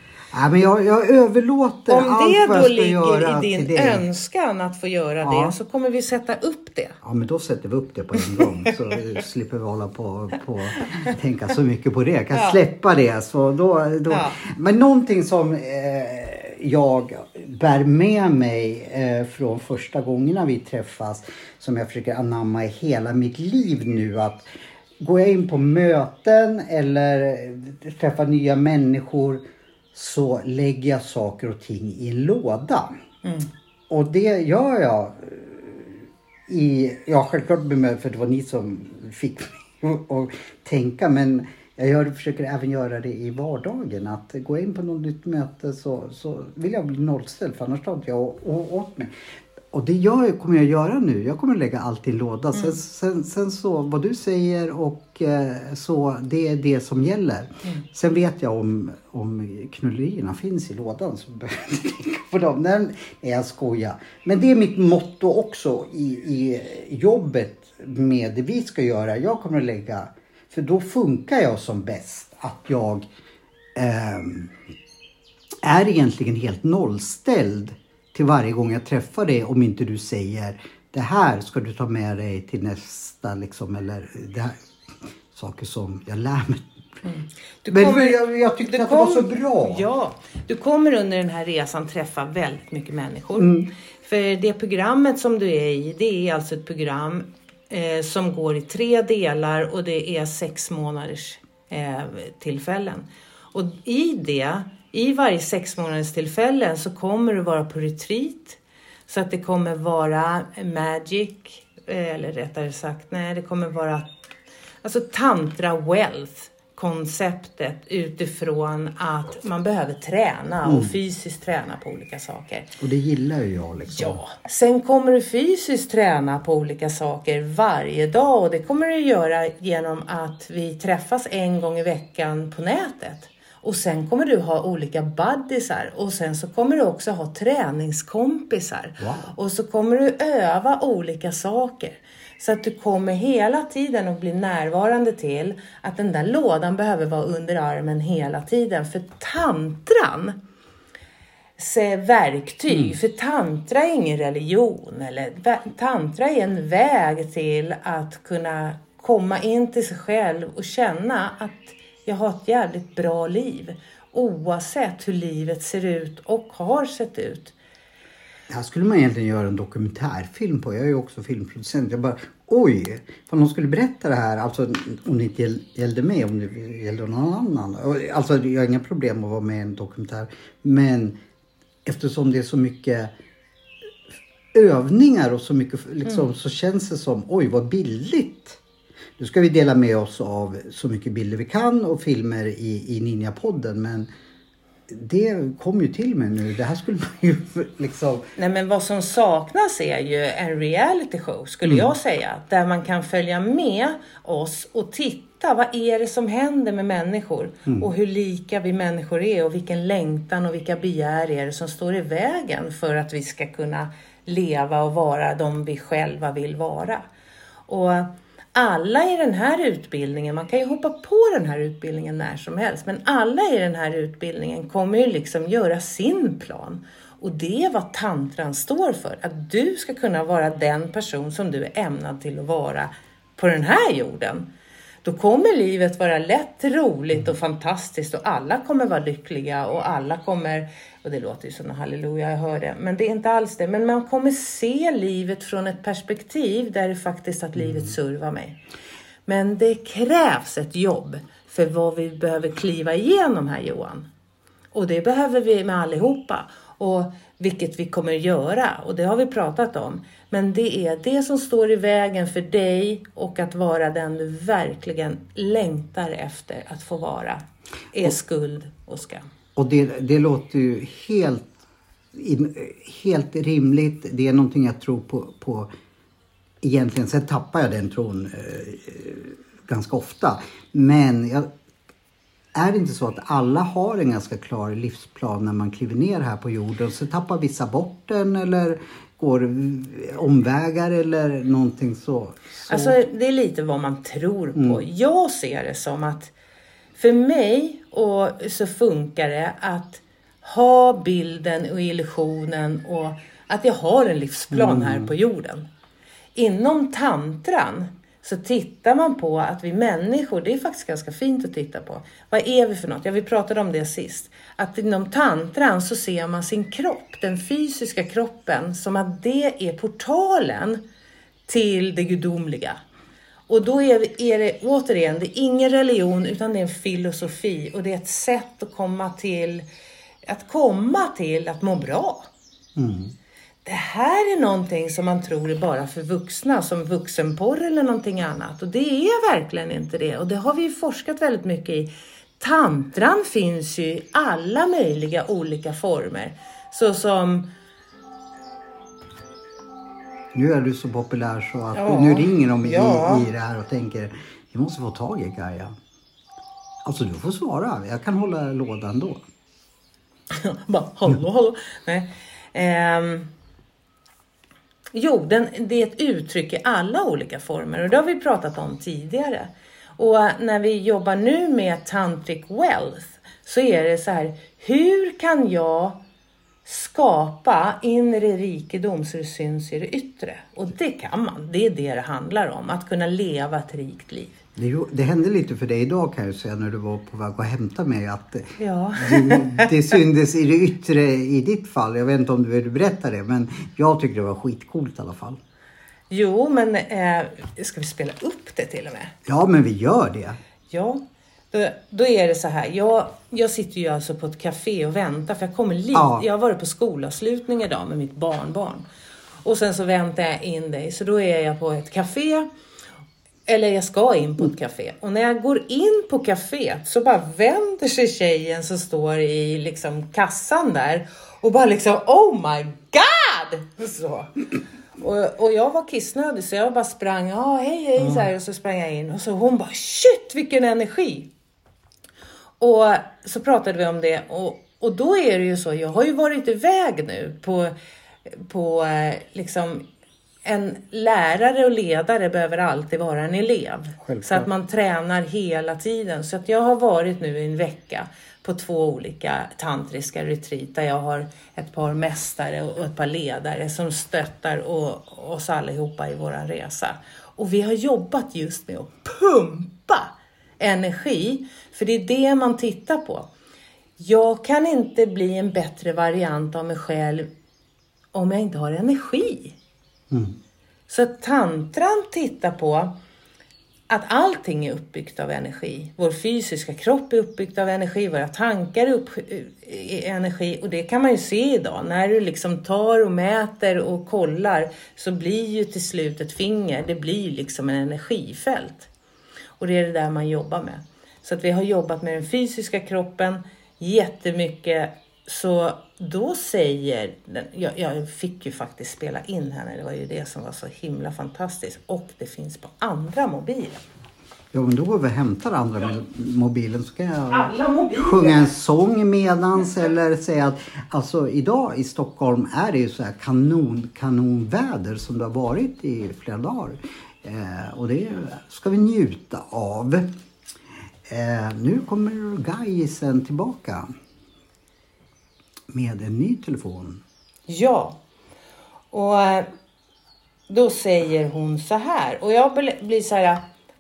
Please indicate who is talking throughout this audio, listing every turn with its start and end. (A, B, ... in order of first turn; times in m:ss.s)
0:00.3-0:04.0 A
0:01.9-0:07.0 B
0:05.2-0:05.5 A
0:07.0-0:24.5 A
0:08.4-0:08.7 B
0:12.3-0:12.6 B
0:14.1-0:14.4 B
0:25.0-0:29.4 A
0:29.9-0:32.9 A
0:33.2-0:33.5 B
0:33.9-0:49.1 A
0:49.7-1:13.1 A
1:13.7-1:14.5 A
1:15.6-1:24.6 A
1:25.3-1:26.7 A
1:27.0-1:54.1 B
1:27.7-1:29.8 A
1:33.4-1:33.7 A
1:54.8-2:02.8 B
2:00.6-2:00.9 A
2:02.8-2:04.2 A
2:03.9-2:30.4 B
2:19.0-2:19.3 A
2:31.6-2:47.5 B
2:48.5-3:01.2 A
3:01.8-3:03.1 A
3:04.5-3:08.6 A
3:09.2-3:14.1 A
3:14.9-3:18.2 A
3:18.4-3:37.0 B
3:37.7-3:54.4 B
3:55.0-4:08.6 B
4:07.6-4:07.9 A
4:09.2-4:14.1 B
4:14.7-4:29.2 B
4:29.6-4:31.5 A
4:32.1-4:35.7 A
4:36.6-4:41.5 A
4:42.5-4:53.0 A
4:52.6-4:56.3 B
4:54.6-4:54.8 A
4:57.0-5:05.6 B
5:04.5-5:05.1 A
5:06.3-5:20.8 B
5:21.5-5:22.8 B
5:23.5-5:29.6 B
5:30.2-5:32.3 B
5:32.8-5:33.1 A
5:33.6-5:47.5 B
5:50.3-5:55.7 A
5:51.7-5:53.3 B
5:56.8-5:59.2 A
6:00.3-6:03.3 B
6:04.9-6:16.0 B
6:16.6-6:24.4 B
6:24.6-6:35.4 A
6:28.6-6:29.7 B
6:36.1-6:39.1 B
6:39.2-6:40.4 A
6:40.7-6:48.8 B
6:45.9-6:46.2 A
6:49.4-6:52.5 B
6:53.5-7:04.3 B
7:05.0-7:11.3 B
7:08.0-7:08.2 A
7:12.6-7:17.7 B
7:18.3-7:19.8 B
7:20.4-7:43.3 B
7:24.0-7:24.5 A
7:44.0-7:47.3 B
7:48.1-7:49.6 B
7:50.1-7:50.4 A
7:50.9-7:52.9 B
7:53.9-8:08.9 B
8:09.6-8:23.8 B
8:24.5-8:40.1 A
8:27.3-8:28.5 B
8:41.1-8:43.9 A
8:45.7-8:47.0 A
8:47.5-8:48.0 B
8:48.9-8:49.5 B
8:50.5-8:53.4 B